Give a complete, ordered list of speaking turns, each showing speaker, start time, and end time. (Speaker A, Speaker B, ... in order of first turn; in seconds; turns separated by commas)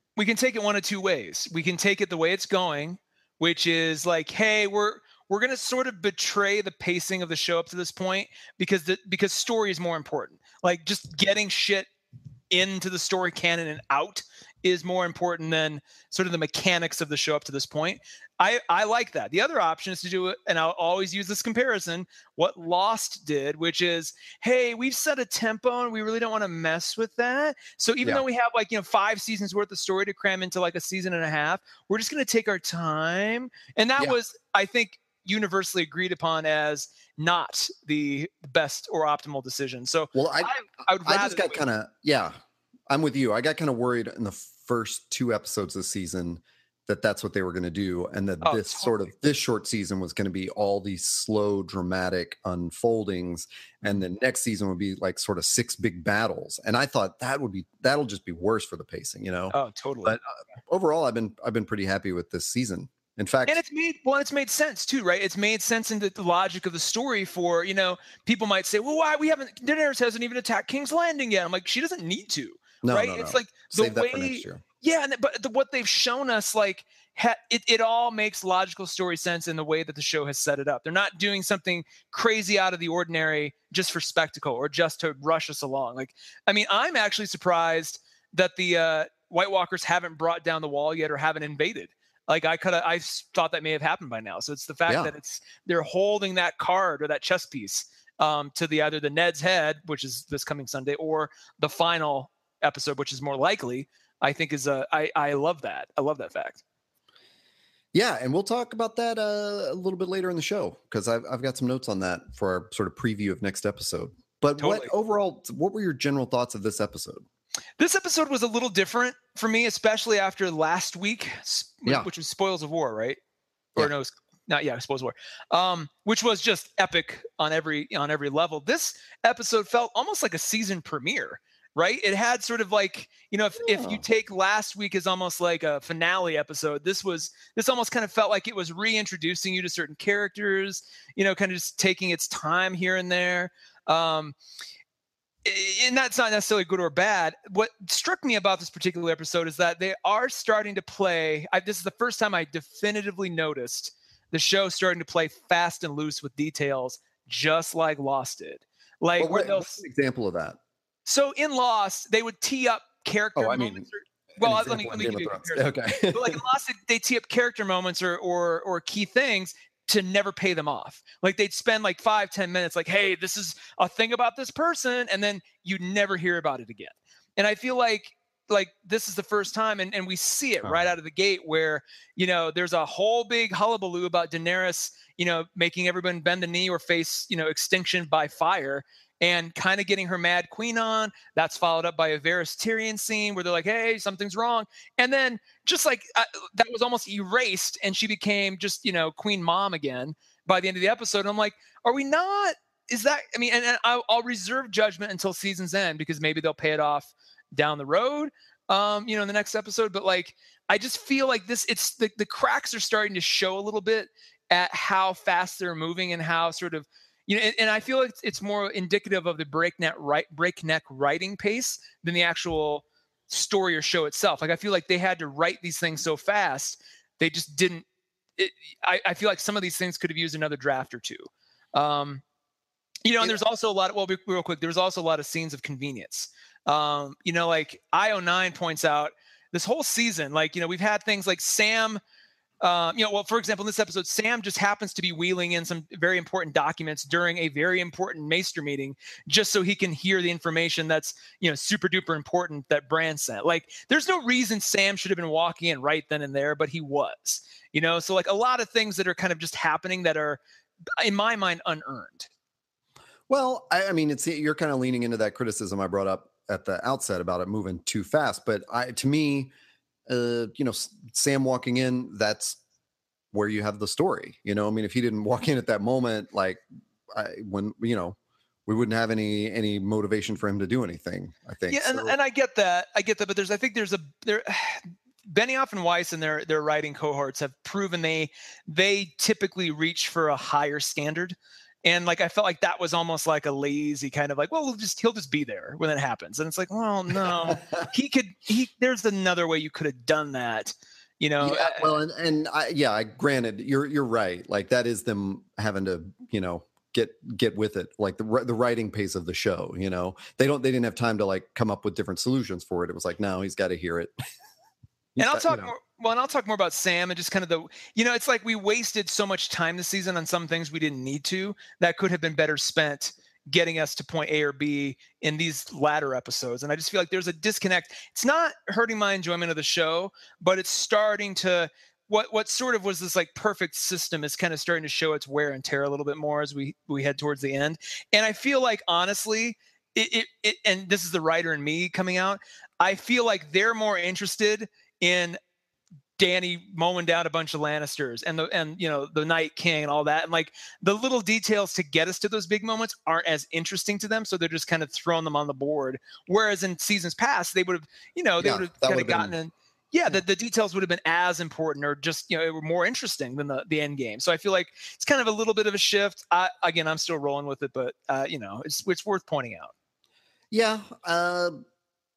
Speaker A: 0.2-11.9, Speaker A: 12.5-41.6, Speaker B: 40.1-40.5, Speaker B: 41.0-42.3, Speaker B: 42.9-63.6, Speaker A: 48.4-49.1, Speaker A: 59.5-60.2, Speaker A: 63.5-106.6, Speaker B: 72.8-74.6, Speaker B: 94.9-95.1, Speaker B: 107.9-117.2, Speaker A: 114.6-114.9, Speaker A: 117.8-123.2, Speaker A: 123.8-144.4, Speaker B: 133.6-134.0, Speaker A: 145.4-159.8, Speaker B: 159.2-160.6, Speaker A: 161.1-227.8, Speaker B: 163.4-163.9, Speaker B: 164.4-166.4, Speaker B: 180.6-180.9, Speaker A: 228.4-232.2, Speaker A: 233.1-242.0, Speaker A: 242.6-260.4, Speaker A: 261.0-262.3, Speaker B: 263.3-269.5, Speaker B: 270.1-272.6, Speaker B: 273.3-282.2, Speaker A: 281.7-301.9, Speaker B: 297.2-297.9, Speaker B: 301.4-314.1, Speaker B: 315.1-315.7, Speaker A: 315.2-345.4, Speaker A: 346.2-369.7, Speaker B: 358.4-359.4, Speaker B: 370.5-371.6